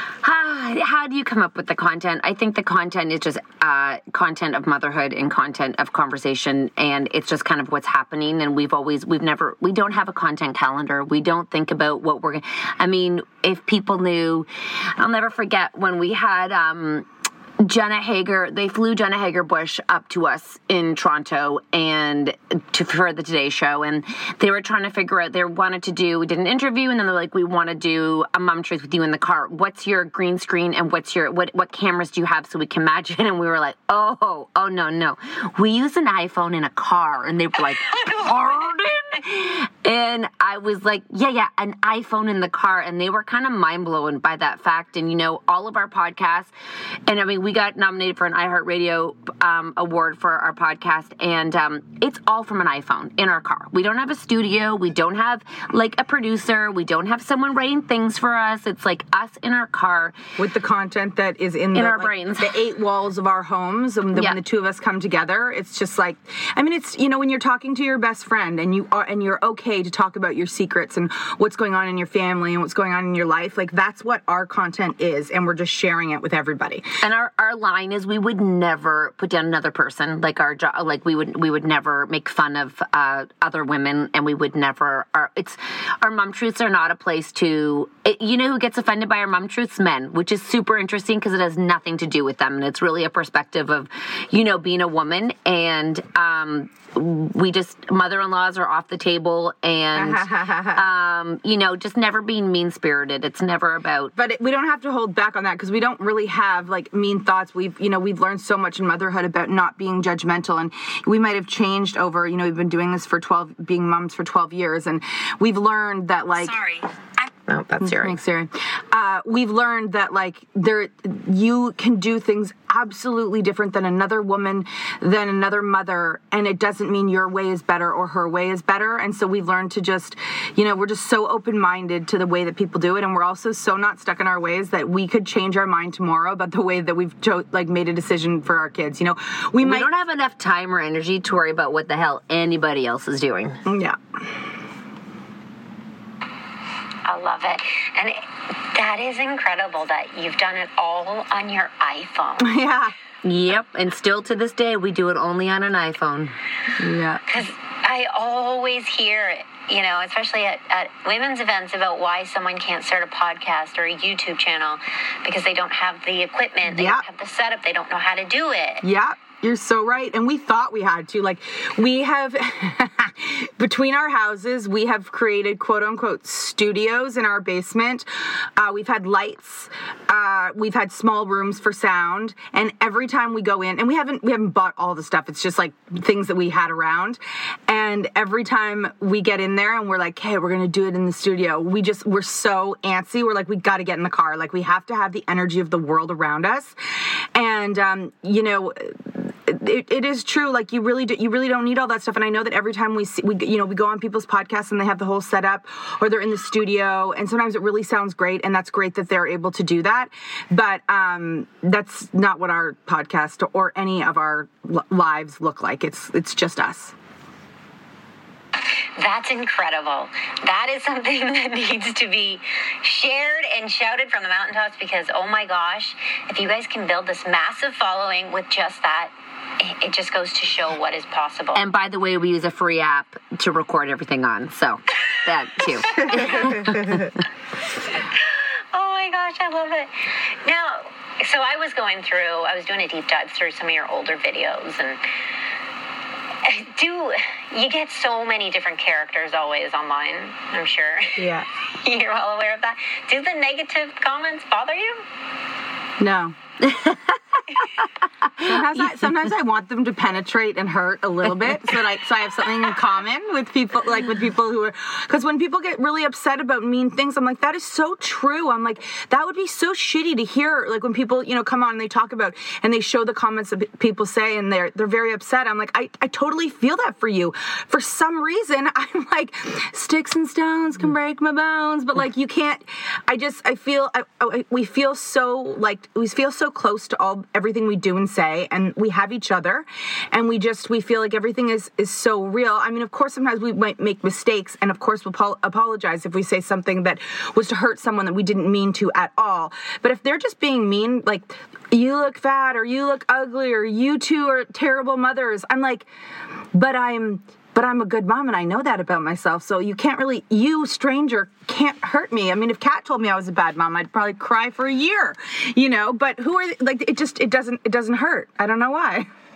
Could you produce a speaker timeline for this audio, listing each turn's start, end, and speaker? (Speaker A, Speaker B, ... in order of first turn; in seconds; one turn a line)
Speaker A: 0.2-17.1
Speaker A: 17.6-46.5
Speaker B: 37.9-38.4
Speaker A: 47.1-60.1
Speaker C: 60.4-76.8
Speaker A: 61.7-62.5
Speaker A: 64.1-64.4
Speaker A: 77.0-104.1
Speaker C: 99.9-100.8
Speaker C: 104.2-116.6
Speaker A: 117.5-118.2
Speaker C: 117.8-139.9
Speaker A: 139.6-143.6
Speaker C: 143.7-144.0
Speaker B: 147.1-152.5
Speaker C: 152.4-152.9
Speaker A: 153.2-156.3
Speaker C: 156.8-157.2
Speaker B: 157.3-168.8
Speaker C: 166.6-167.0
Speaker C: 168.8-196.7
Speaker C: 197.3-216.9
Speaker B: 219.0-231.6
Speaker A: 231.5-237.1
Speaker C: 236.2-237.1
Speaker B: 238.2-245.0
Speaker B: 246.4-255.0
Speaker C: 251.2-251.5
Speaker C: 256.0-256.4
Speaker A: 256.6-257.1
Speaker C: 258.4-305.9
Speaker A: 258.4-259.0
Speaker C: 306.5-319.1